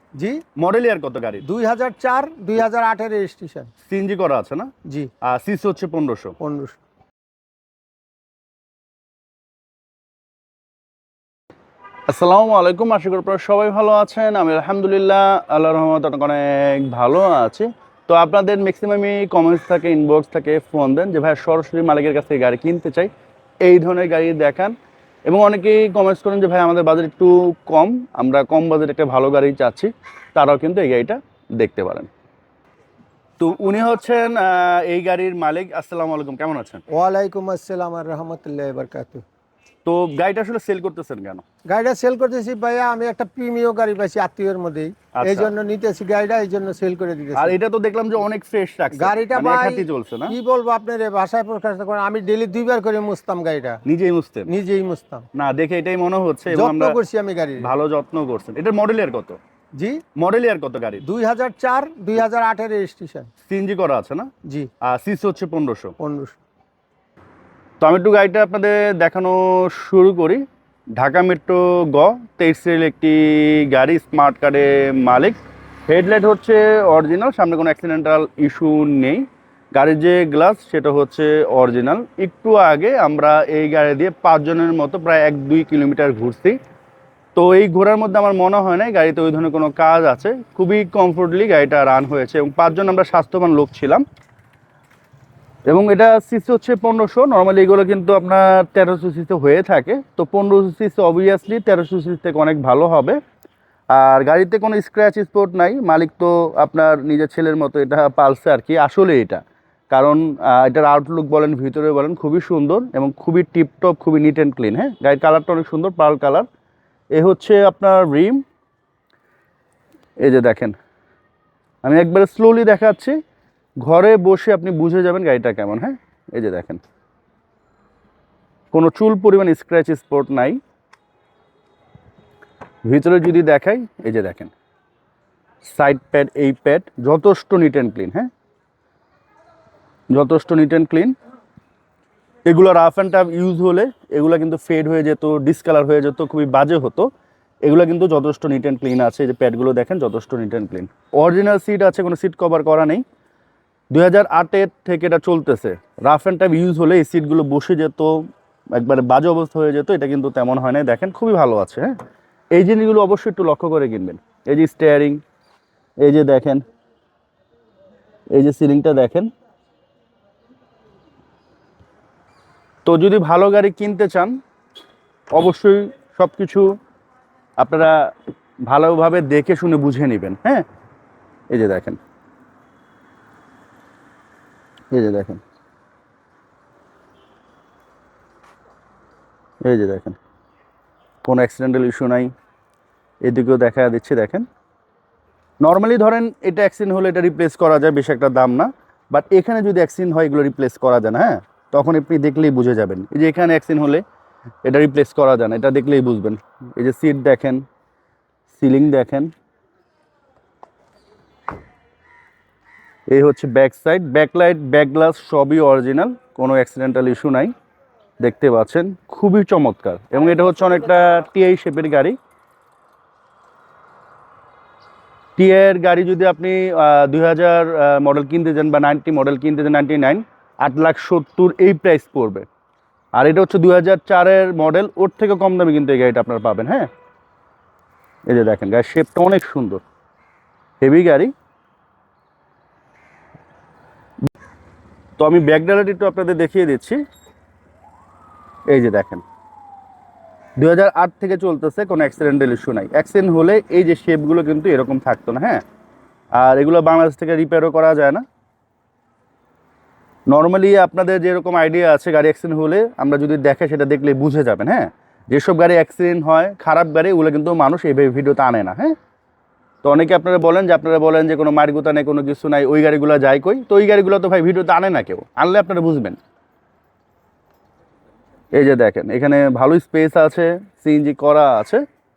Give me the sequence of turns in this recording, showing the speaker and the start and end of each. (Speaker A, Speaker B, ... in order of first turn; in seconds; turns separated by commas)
Speaker A: 0.1-0.4, Speaker B: 0.6-1.4, Speaker A: 1.4-3.7, Speaker B: 3.9-4.7, Speaker B: 5.2-6.3, Speaker A: 6.4-6.8, Speaker B: 12.1-23.1, Speaker B: 23.6-24.7, Speaker B: 25.2-32.1, Speaker B: 33.4-36.8, Speaker A: 36.9-39.2, Speaker B: 39.8-41.4, Speaker A: 41.7-47.5, Speaker B: 45.1-45.5, Speaker B: 47.4-50.4, Speaker A: 48.9-53.8, Speaker B: 53.8-54.5, Speaker A: 54.5-55.3, Speaker B: 55.3-57.0, Speaker A: 56.5-57.7, Speaker B: 57.6-59.4, Speaker A: 59.8-60.0, Speaker B: 60.1-61.0, Speaker A: 61.0-63.3, Speaker B: 63.5-64.3, Speaker B: 64.8-65.9, Speaker A: 66.0-66.4, Speaker B: 67.8-70.4, Speaker B: 71.0-75.4, Speaker B: 75.9-86.6, Speaker B: 87.3-94.0, Speaker B: 95.7-103.2, Speaker B: 103.9-116.5, Speaker B: 117.1-118.4, Speaker B: 120.2-120.7, Speaker B: 121.8-123.2, Speaker B: 123.8-126.8, Speaker B: 128.7-130.6, Speaker B: 132.8-134.5, Speaker B: 135.6-138.3, Speaker B: 140.1-141.1, Speaker B: 142.4-147.1, Speaker B: 147.6-153.0, Speaker B: 153.9-161.9, Speaker B: 162.5-165.2, Speaker B: 166.0-166.6, Speaker B: 168.3-169.3, Speaker B: 172.8-174.4, Speaker B: 175.3-176.7, Speaker B: 177.6-178.1, Speaker B: 178.7-180.6, Speaker B: 181.5-182.0, Speaker B: 184.9-185.4, Speaker B: 189.6-190.2, Speaker B: 191.2-192.3, Speaker B: 193.2-194.4, Speaker B: 195.6-204.0, Speaker B: 204.6-207.6, Speaker B: 208.5-209.3, Speaker B: 213.1-217.5, Speaker B: 218.2-222.2, Speaker B: 225.4-232.5, Speaker B: 233.2-236.9, Speaker B: 238.3-239.8, Speaker B: 240.8-241.3, Speaker B: 245.2-247.0, Speaker B: 248.7-249.2, Speaker B: 250.6-255.6, Speaker B: 256.4-258.2, Speaker B: 260.3-268.9, Speaker B: 269.8-276.2, Speaker B: 278.5-281.8